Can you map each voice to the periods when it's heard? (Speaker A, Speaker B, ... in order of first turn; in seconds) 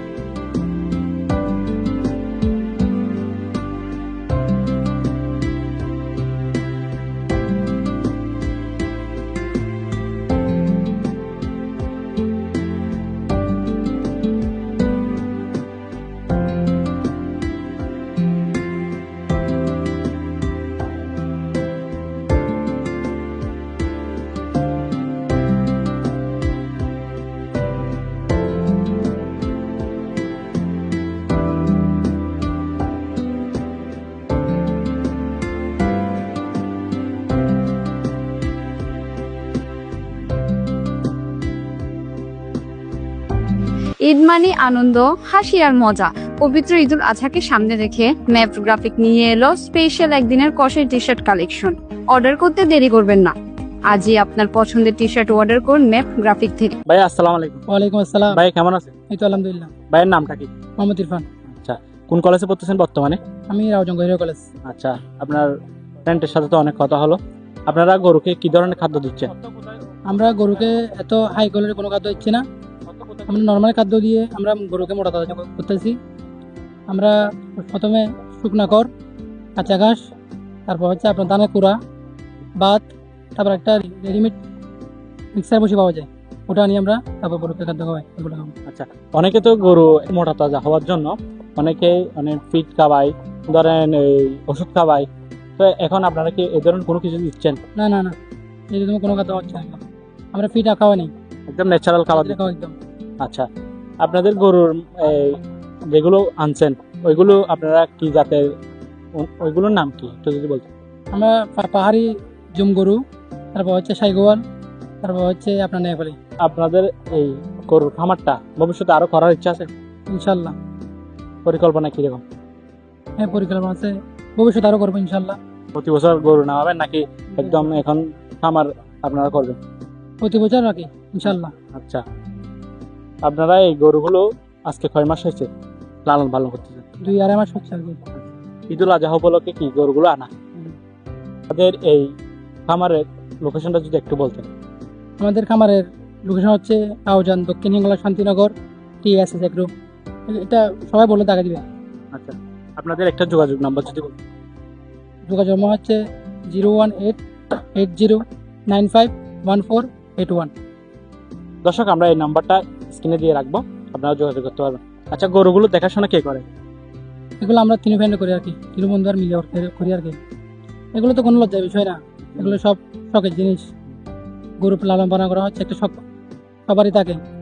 Speaker A: 44.1-53.4, 53.9-56.8
Speaker B: 56.9-57.6, 58.3-58.9, 59.9-60.5, 61.5-63.2, 64.7-65.5, 66.1-69.4, 72.9-73.5, 88.7-97.6, 101.5-102.4, 103.2-103.5, 104.0-108.5, 109.2-110.7, 116.4-119.7, 121.5-122.2, 125.8-129.6, 131.3-132.0, 133.2-135.5, 136.1-136.8, 138.2-140.3, 141.5-142.1, 142.7-144.5, 152.1-154.2, 161.7-166.4, 172.3-172.6
Speaker C: 57.7-58.4, 59.1-59.7, 60.8-61.3, 63.5-64.5, 70.1-72.4, 73.3-76.0, 76.9-78.9, 79.6-80.0, 80.7-81.8, 82.6-84.4, 85.3-88.5, 97.8-98.2, 98.7-99.8, 100.3-101.1, 102.1-102.8, 111.1-113.0, 113.5-114.4, 115.0-116.2, 120.1-120.6, 123.2-125.4, 127.4-127.7, 130.2-131.5, 137.0-138.0, 145.2-149.7, 150.3-151.6, 155.3-157.2, 157.8-160.5, 167.4-170.2, 170.9-173.7, 174.6-176.0, 176.7-177.2